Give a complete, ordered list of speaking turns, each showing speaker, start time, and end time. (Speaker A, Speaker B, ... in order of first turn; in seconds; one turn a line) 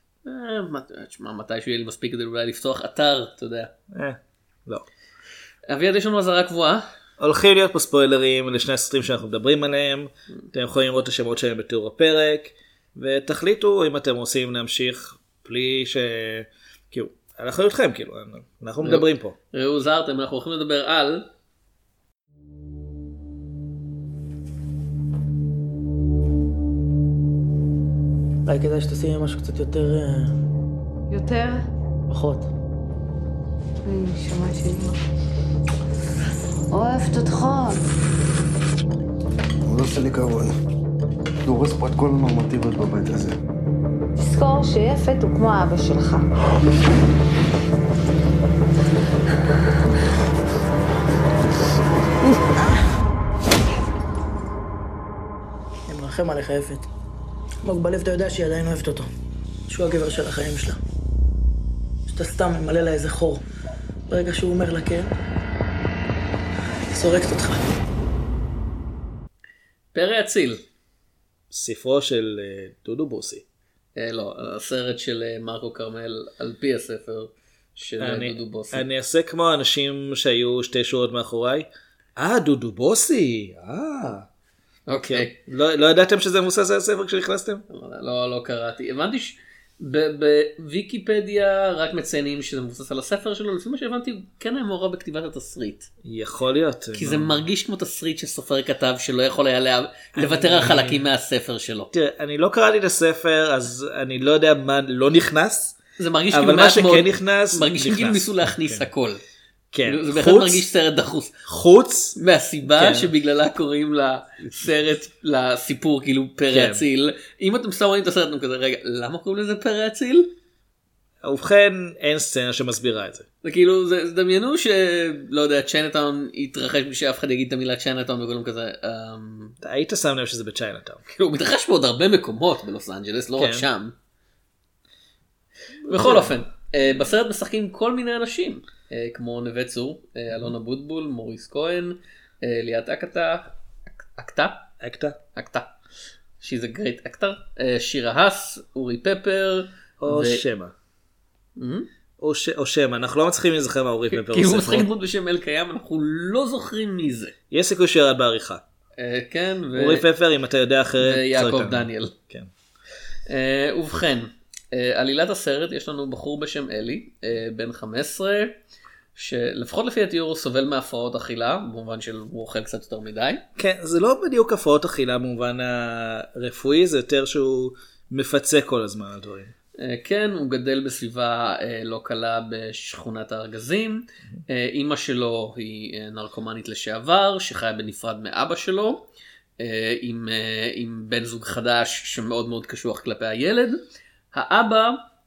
Speaker A: 0.2-3.7
Speaker B: 3.9-4.8
Speaker A: 5.7-6.8
Speaker B: 7.2-19.3
Speaker A: 18.8-21.3
Speaker C: 28.4-30.4
Speaker D: 31.1-31.7
Speaker C: 32.1-32.5
Speaker D: 33.8-35.0
Speaker D: 36.7-37.8
Speaker E: 39.6-40.5
Speaker E: 41.4-43.4
Speaker D: 44.2-46.3
Speaker C: 55.9-56.9
Speaker C: 57.6-59.1
Speaker C: 59.7-60.8
Speaker C: 62.1-63.4
Speaker C: 64.1-65.1
Speaker C: 66.9-67.7
Speaker A: 69.9-70.6
Speaker B: 71.5-73.4
Speaker A: 74.0-78.8
Speaker B: 78.0-84.3
Speaker A: 84.9-85.3
Speaker B: 85.0-87.6
Speaker A: 87.7-95.9
Speaker B: 96.0-97.4
Speaker A: 96.9-101.9
Speaker B: 100.1-101.0
Speaker B: 101.9-105.8
Speaker A: 106.0-109.2
Speaker B: 106.3-108.9
Speaker B: 109.7-110.7
Speaker A: 109.8-111.4
Speaker B: 111.5-113.1
Speaker A: 112.2-120.3
Speaker B: 116.5-116.8
Speaker B: 121.2-123.2
Speaker A: 123.4-129.6
Speaker B: 129.6-131.0
Speaker A: 131.1-133.9
Speaker B: 133.4-133.7
Speaker A: 135.8-143.5
Speaker B: 135.9-136.3
Speaker A: 144.1-144.7
Speaker B: 144.8-145.2
Speaker A: 145.3-145.7
Speaker A: 146.4-150.4
Speaker B: 150.0-150.7
Speaker A: 151.6-151.9
Speaker B: 152.2-154.9
Speaker A: 154.1-157.3
Speaker B: 157.5-158.6
Speaker A: 159.0-160.0
Speaker B: 159.7-162.5
Speaker A: 161.0-162.1
Speaker A: 163.3-168.5
Speaker A: 169.1-173.4
Speaker B: 173.6-179.5
Speaker A: 179.8-189.1
Speaker A: 189.6-193.8
Speaker A: 194.3-195.0